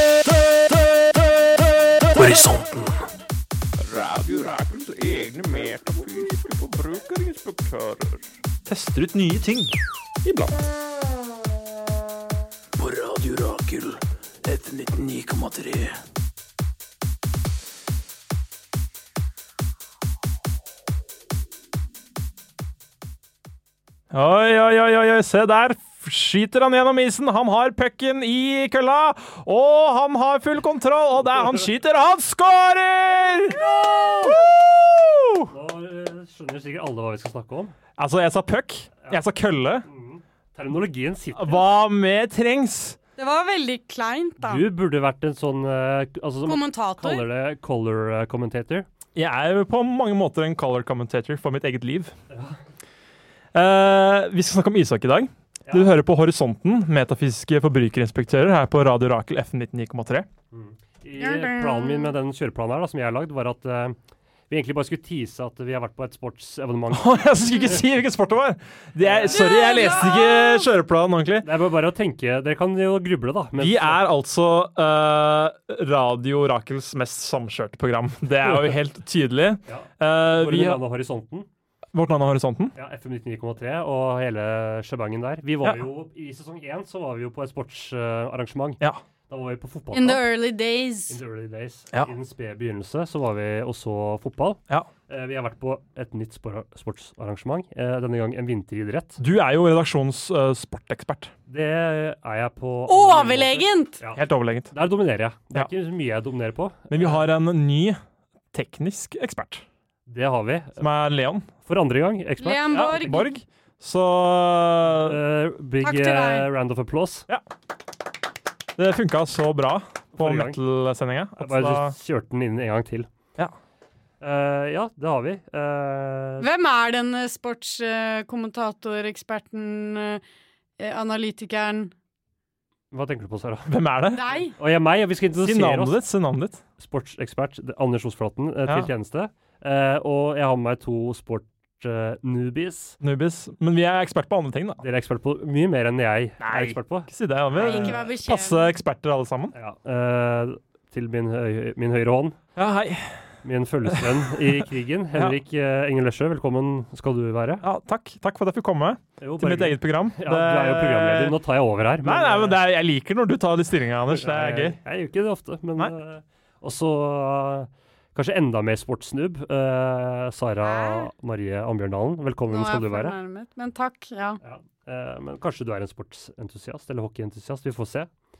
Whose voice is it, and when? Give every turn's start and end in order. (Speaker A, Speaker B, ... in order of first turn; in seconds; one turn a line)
Speaker A: 2.1-2.7
Speaker A: 3.9-6.8
Speaker B: 5.5-7.1
Speaker A: 7.5-7.8
Speaker B: 8.7-9.7
Speaker B: 10.2-10.5
Speaker B: 15.0-15.3
Speaker B: 24.1-35.5
Speaker C: 31.3-31.6
Speaker D: 33.5-34.4
Speaker C: 35.5-37.7
Speaker B: 38.0-39.9
Speaker C: 39.8-41.7
Speaker B: 41.3-43.0
Speaker D: 43.2-44.6
Speaker C: 44.4-48.9
Speaker D: 46.5-47.3
Speaker B: 49.1-52.1
Speaker C: 52.3-52.6
Speaker B: 53.5-60.3
Speaker C: 55.6-55.9
Speaker C: 60.5-64.0
Speaker D: 61.2-62.1
Speaker C: 64.5-67.8
Speaker B: 66.9-71.5
Speaker C: 69.0-70.0
Speaker D: 69.3-70.7
Speaker C: 71.4-74.0
Speaker B: 73.6-80.8
Speaker C: 78.4-78.8
Speaker C: 79.7-81.5
Speaker B: 81.9-82.7
Speaker C: 82.7-90.2
Speaker B: 85.6-85.9
Speaker D: 89.9-91.2
Speaker C: 91.1-99.2
Speaker B: 99.2-101.3
Speaker C: 101.5-107.3
Speaker D: 102.9-104.0
Speaker B: 104.1-104.7
Speaker B: 106.9-108.0
Speaker B: 108.5-109.6
Speaker C: 110.1-110.8
Speaker B: 110.8-111.5
Speaker C: 111.6-113.2
Speaker D: 112.4-113.2
Speaker B: 112.8-115.2
Speaker C: 114.9-117.2
Speaker D: 115.8-116.5
Speaker B: 118.8-122.0
Speaker C: 120.2-120.6
Speaker C: 121.4-123.1
Speaker C: 124.2-126.5
Speaker D: 126.4-130.2
Speaker D: 130.8-131.9
Speaker C: 132.9-133.8
Speaker B: 133.7-134.2
Speaker D: 134.1-134.5
Speaker C: 134.3-136.0
Speaker B: 135.4-136.6
Speaker C: 136.8-143.0
Speaker B: 143.0-144.8
Speaker C: 144.8-148.0
Speaker B: 146.4-149.5
Speaker D: 147.6-148.7
Speaker C: 149.5-152.4
Speaker B: 152.6-153.3
Speaker C: 153.4-157.6
Speaker B: 153.9-154.6
Speaker B: 157.6-161.4
Speaker C: 159.2-162.6
Speaker B: 162.0-164.8
Speaker C: 164.1-173.2
Speaker D: 170.6-171.1
Speaker D: 172.5-174.4
Speaker C: 174.4-178.1